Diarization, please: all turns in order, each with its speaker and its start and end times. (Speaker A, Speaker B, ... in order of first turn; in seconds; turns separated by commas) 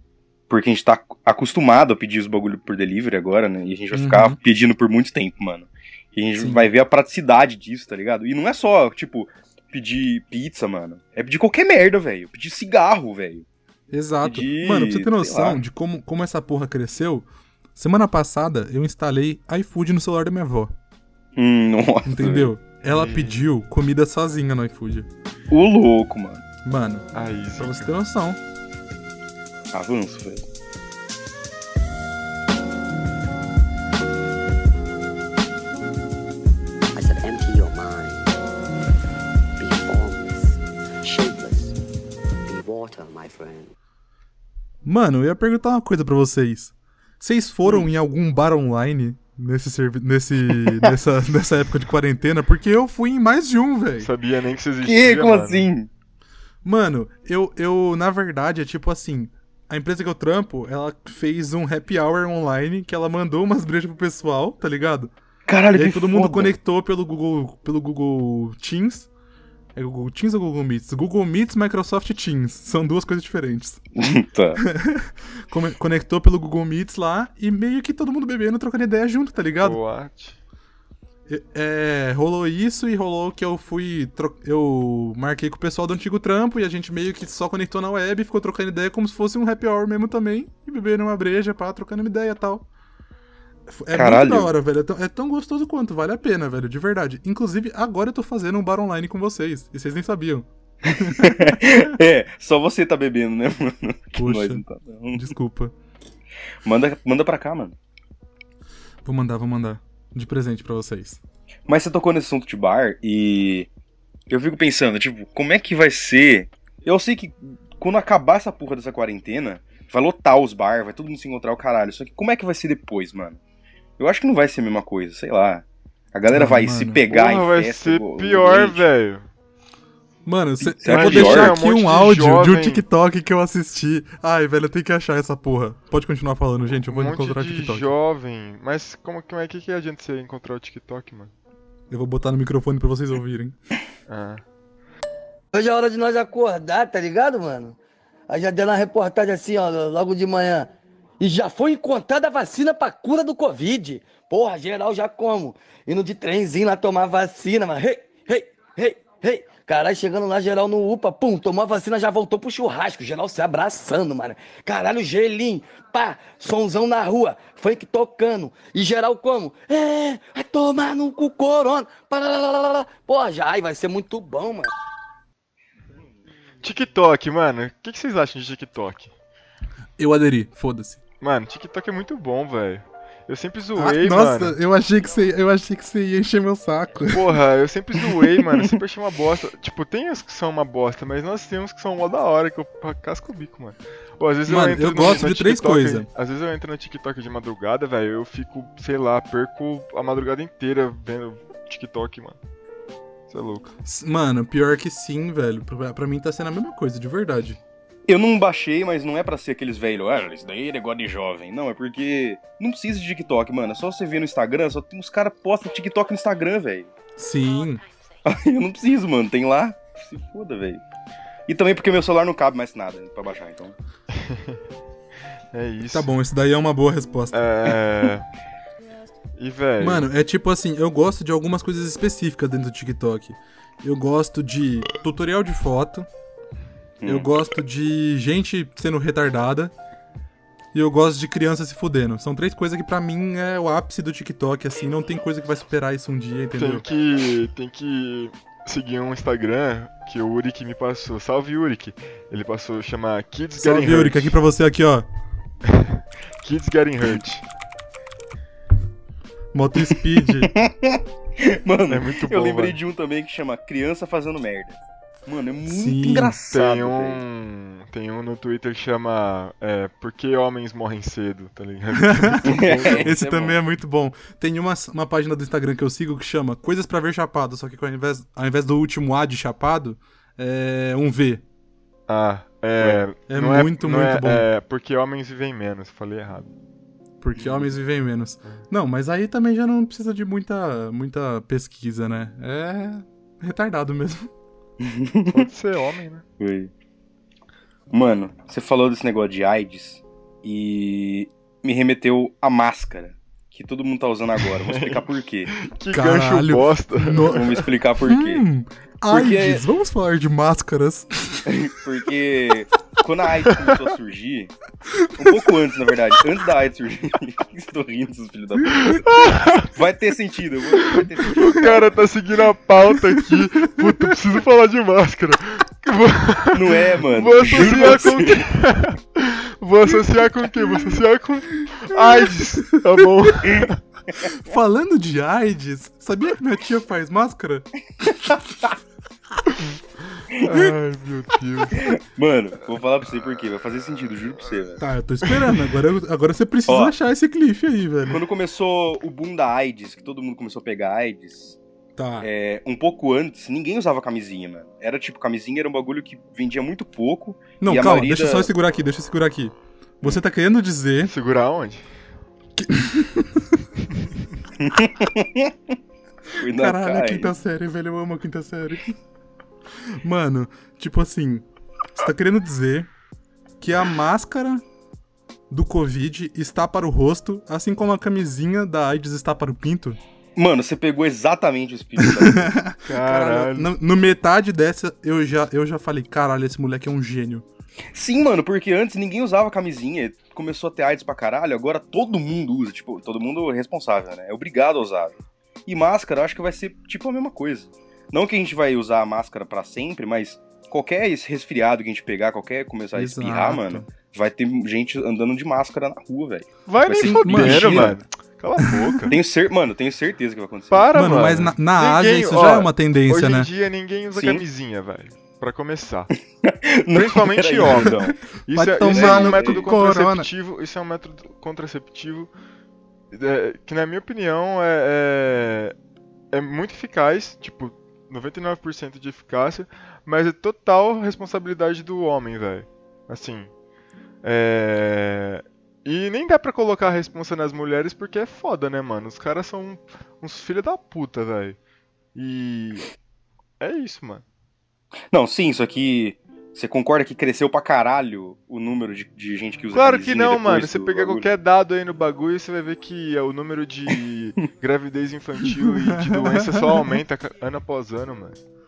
Speaker A: 0.5-13.4, Speaker B: 3.9-4.4, Speaker B: 6.4-6.7, Speaker B: 13.9-20.7, Speaker A: 14.2-15.6, Speaker A: 21.4-22.5, Speaker B: 22.0-25.1, Speaker C: 22.9-23.4, Speaker A: 25.5-26.4, Speaker B: 26.6-27.1, Speaker C: 27.1-27.9, Speaker B: 27.6-28.4, Speaker A: 29.7-30.4, Speaker D: 36.9-38.3, Speaker D: 39.6-41.8, Speaker D: 42.5-43.7, Speaker B: 44.8-54.1, Speaker A: 50.5-50.9, Speaker C: 54.0-55.7, Speaker A: 54.8-55.9, Speaker B: 56.6-65.1, Speaker A: 65.5-66.5, Speaker B: 65.7-69.1, Speaker B: 69.7-73.8, Speaker A: 74.0-74.6, Speaker B: 74.6-79.8, Speaker C: 79.6-80.4, Speaker B: 81.3-92.7, Speaker B: 93.7-101.6, Speaker A: 93.9-94.5, Speaker A: 101.1-105.3, Speaker B: 104.2-104.6, Speaker B: 105.1-105.7, Speaker A: 106.6-107.8, Speaker B: 109.0-111.2, Speaker A: 111.7-113.7, Speaker A: 114.3-123.4, Speaker A: 124.0-128.8, Speaker B: 126.3-127.0, Speaker C: 127.1-129.3, Speaker B: 130.2-137.9, Speaker A: 130.6-131.6, Speaker C: 130.9-132.8, Speaker C: 136.9-141.3, Speaker B: 141.9-143.6, Speaker C: 144.1-144.4, Speaker E: 145.5-147.8, Speaker E: 148.3-174.7, Speaker C: 176.6-179.1, Speaker B: 180.0-181.0, Speaker C: 181.2-184.6, Speaker B: 183.8-187.3, Speaker C: 187.1-202.4, Speaker B: 194.5-196.1, Speaker C: 203.3-203.7, Speaker B: 203.8-207.6, Speaker A: 208.1-216.9, Speaker B: 217.2-217.8, Speaker A: 218.2-220.8, Speaker A: 221.5-223.7, Speaker C: 224.1-224.6, Speaker C: 225.5-226.1, Speaker B: 225.9-227.5, Speaker C: 227.3-228.2, Speaker C: 229.4-230.1, Speaker B: 229.8-236.1, Speaker A: 237.0-237.3, Speaker B: 237.0-239.7, Speaker B: 240.7-246.8, Speaker C: 246.6-254.4, Speaker B: 253.6-255.1, Speaker C: 255.6-257.4, Speaker B: 259.5-260.6, Speaker A: 260.4-267.2, Speaker C: 261.9-262.8, Speaker B: 265.7-266.4, Speaker C: 266.5-273.1, Speaker B: 271.9-281.4, Speaker A: 272.4-273.6, Speaker C: 282.1-286.5, Speaker B: 283.3-284.5, Speaker B: 287.2-294.3, Speaker A: 294.8-295.5, Speaker C: 295.3-296.2, Speaker A: 296.4-296.7, Speaker A: 297.9-305.5, Speaker C: 304.5-307.5, Speaker B: 305.9-311.7, Speaker A: 307.2-308.4, Speaker A: 309.1-309.6, Speaker A: 311.4-314.5, Speaker B: 314.9-315.3, Speaker A: 315.1-319.0, Speaker C: 318.8-319.7, Speaker A: 319.6-322.0, Speaker C: 320.9-333.8, Speaker B: 323.1-323.8, Speaker A: 326.5-328.4, Speaker B: 327.4-328.2, Speaker B: 331.6-332.0, Speaker B: 334.1-337.7, Speaker A: 338.0-338.7, Speaker C: 340.1-341.9, Speaker B: 340.5-340.7, Speaker A: 341.8-344.8, Speaker B: 344.8-348.2, Speaker A: 346.7-346.9, Speaker A: 348.1-351.6, Speaker B: 352.0-352.3, Speaker A: 352.2-358.5, Speaker B: 357.6-361.1, Speaker C: 361.1-361.8, Speaker B: 362.6-363.6, Speaker A: 364.6-365.7, Speaker A: 366.4-367.3, Speaker B: 366.5-368.9, Speaker B: 370.0-372.9, Speaker B: 373.6-374.6, Speaker B: 375.5-380.0, Speaker A: 380.4-382.6, Speaker B: 382.0-387.4, Speaker C: 382.9-383.7, Speaker A: 387.9-408.0, Speaker B: 402.9-403.9, Speaker C: 406.7-409.2, Speaker B: 407.0-408.0, Speaker A: 409.1-411.0, Speaker C: 410.7-416.1, Speaker B: 410.9-413.5, Speaker A: 414.1-414.4, Speaker A: 416.4-418.2, Speaker C: 416.9-422.3, Speaker B: 418.5-420.3, Speaker A: 418.8-419.7, Speaker C: 423.1-425.7, Speaker C: 426.3-433.5, Speaker C: 434.2-441.6, Speaker C: 442.1-442.9, Speaker C: 443.6-444.2, Speaker A: 445.1-451.3, Speaker C: 449.7-458.4, Speaker B: 455.6-456.9